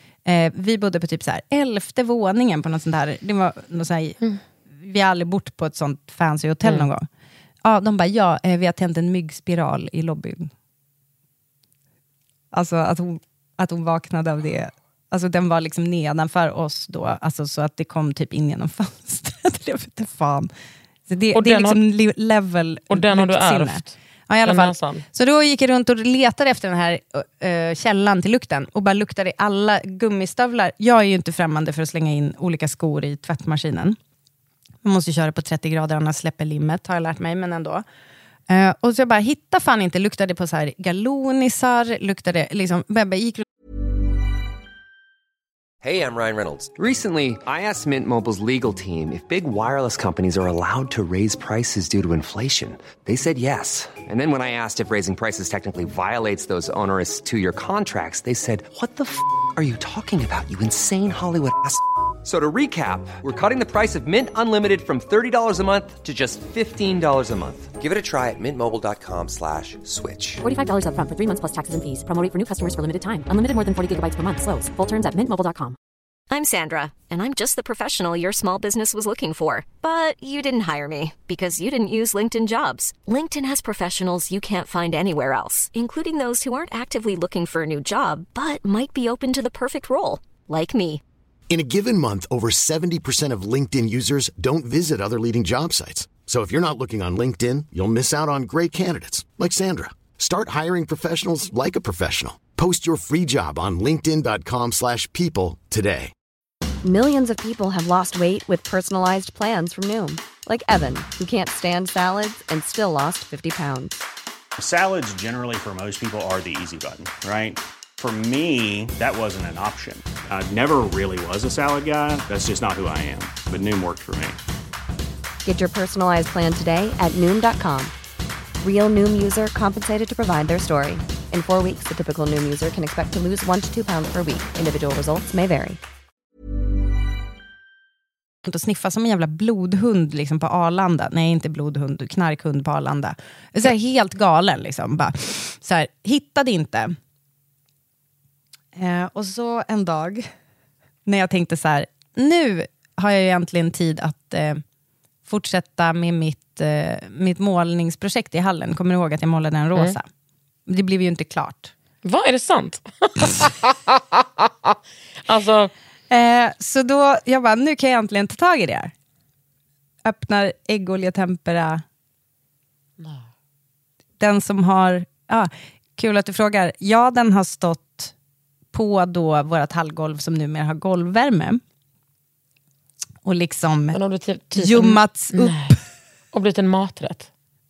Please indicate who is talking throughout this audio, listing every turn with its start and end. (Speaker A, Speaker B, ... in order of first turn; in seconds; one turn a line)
Speaker A: 0.2-4.2
Speaker A: 4.8-7.1
Speaker B: 6.6-6.9
Speaker A: 7.6-10.5
Speaker A: 12.5-20.5
Speaker A: 21.1-34.0
Speaker B: 21.3-21.8
Speaker B: 22.9-23.9
Speaker B: 24.4-25.0
Speaker A: 34.8-37.8
Speaker A: 38.5-43.4
Speaker C: 45.8-70.4
Speaker D: 70.4-75.8
Speaker E: 76.3-91.0
Speaker F: 91.5-106.1
Speaker G: 106.8-114.0
Speaker H: 114.6-124.4
Speaker G: 125.4-127.9
Speaker G: 128.6-135.8
Speaker A: 138.4-146.9
Speaker A: 148.7-150.3
Speaker A: 151.1-154.6
Speaker A: 155.2-160.1
Speaker A: 160.7-161.7
Speaker B: 162.0-165.7
Speaker A: 166.1-168.9
Speaker A: 170.0-171.8
Speaker B: 173.0-173.2
Speaker A: 174.2-178.1
Speaker A: 178.7-181.6
Speaker A: 183.2-184.0
Speaker B: 183.9-185.8
Speaker A: 184.5-185.8
Speaker B: 186.3-187.3